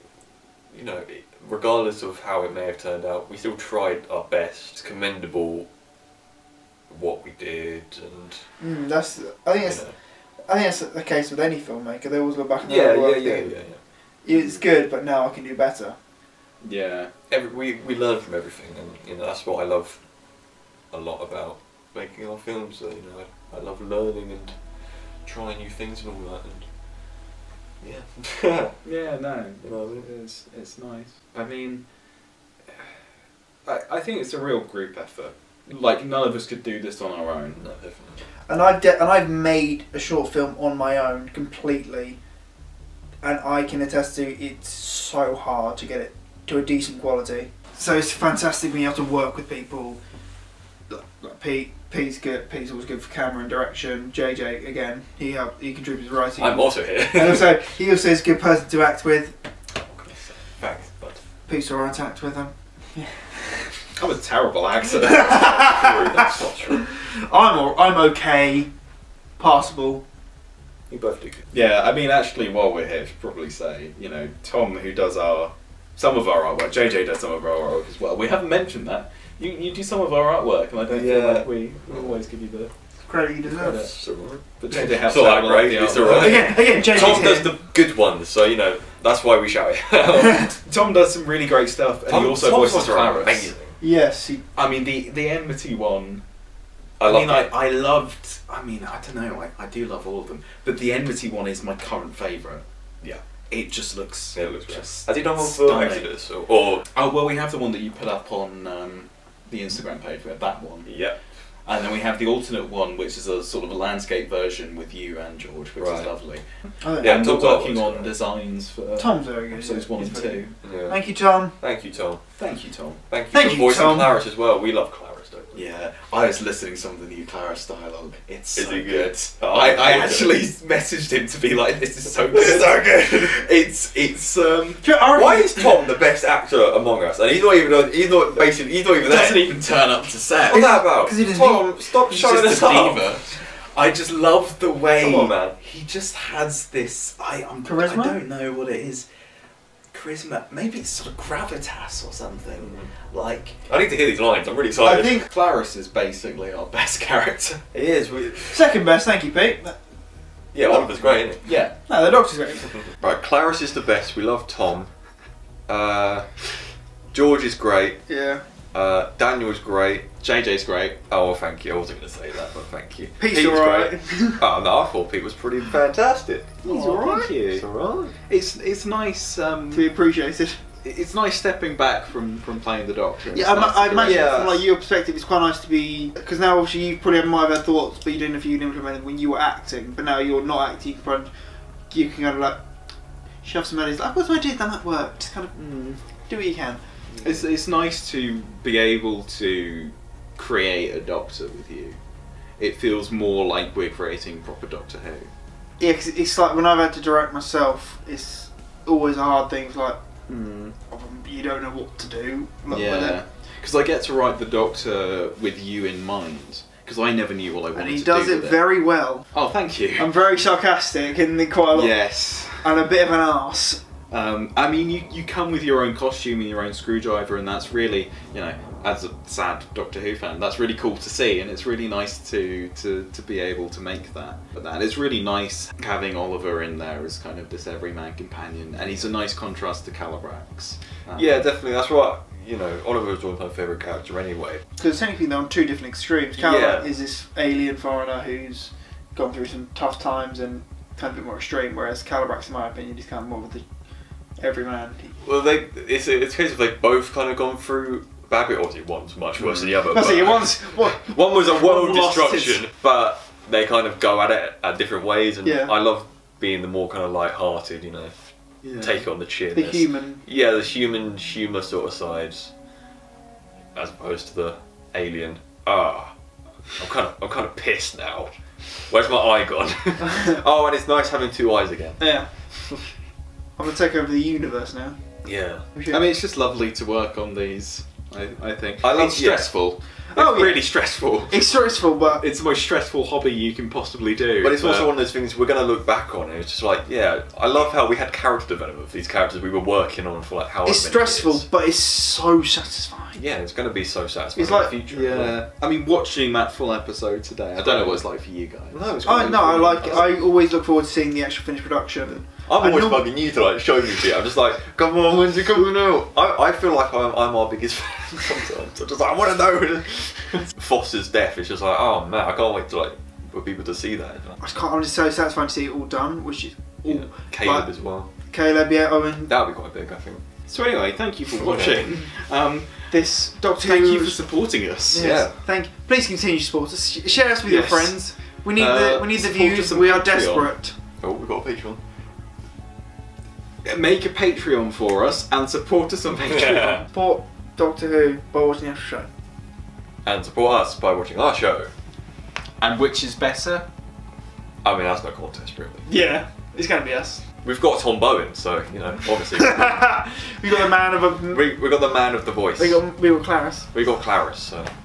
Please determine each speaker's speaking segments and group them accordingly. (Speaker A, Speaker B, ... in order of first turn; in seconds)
Speaker A: 0.7-5.7, 6.9-8.5, 9.6-10.0, 12.6-14.6, 17.3-26.7, 27.8-28.9, 29.6-30.1, 37.5-38.2, 56.4-57.6, 59.8-61.2, 65.2-66.9, 70.9-71.5, 80.9-82.2, 83.5-90.5, 92.1-93.8, 97.0-97.5, 104.3-106.9, 110.8-111.2, 115.8-116.1, 117.0-118.1, 120.6-122.2, 123.1-125.6, 128.6-130.3, 132.3-132.8, 135.1-139.6, 140.4-143.3, 145.0-145.6, 152.6-152.9, 153.7-155.2, 157.7-158.6, 160.5-161.4, 162.9-164.9, 165.7-166.5, 167.1-168.1, 168.7-170.1, 171.1-178.2, 197.2-197.4, 241.1-244.6, 246.4-246.9, 255.2-272.5, 273.7-282.6, 285.2-285.7, 288.8-289.6, 294.4-301.5, 303.1-305.4, 307.6-308.1, 308.7-310.2, 312.4-324.4, 326.9-328.1, 329.3-330.2, 331.3-331.9, 334.9-335.4, 341.0-341.8, 346.3-346.8, 350.0-351.7, 354.6-355.9, 357.4-360.0, 361.3-362.8, 363.7-364.7
Speaker B: 8.6-16.0, 38.5-42.2, 43.2-50.0, 50.9-59.4, 61.5-63.8, 65.2-66.2, 66.9-68.7, 69.4-70.0, 83.0-83.9, 86.1-87.5, 93.8-94.4, 116.8-117.2, 119.0-121.5, 123.3-124.2, 134.8-135.6, 140.5-141.8, 147.7-148.2, 154.8-155.2, 158.4-159.8, 160.7-162.9, 168.1-168.4, 173.2-174.4, 176.6-177.3, 179.7-180.6, 183.3-191.3, 191.9-192.6, 193.4-195.6, 196.3-196.8, 205.8-210.0, 210.9-213.2, 217.7-223.8, 244.8-253.7, 254.4-255.2, 259.9-262.6, 265.4-265.7, 269.5-270.2, 282.0-282.6, 283.6-285.0, 290.1-290.7, 291.3-292.2, 300.6-303.2, 304.4-304.8, 309.0-313.1, 324.4-329.4, 332.9-334.2, 334.9-340.8, 346.9-349.1, 355.9-357.2, 359.4-361.6, 362.6-363.7
Speaker C: 16.6-17.1, 28.8-31.9, 33.6-37.6, 64.0-66.0, 71.5-82.7, 84.6-87.2, 90.3-93.5, 94.5-96.2, 97.0-102.6, 103.5-106.1, 106.9-111.1, 111.6-120.6, 122.4-123.0, 125.5-134.9, 139.0-140.8, 141.9-149.1, 149.9-153.6, 154.8-157.6, 161.3-161.8, 170.2-171.0, 176.6-177.7, 178.3-179.9, 180.8-184.6, 195.6-196.0, 197.2-202.0, 202.6-205.3, 210.3-210.8, 212.7-218.7, 219.3-220.1, 221.7-222.7, 224.1-241.5, 259.4-259.8, 268.6-269.0, 285.9-294.9, 304.9-309.0, 309.8-310.1, 330.5-333.0, 333.5-335.2, 337.4-340.5, 343.6-346.9, 352.6-353.7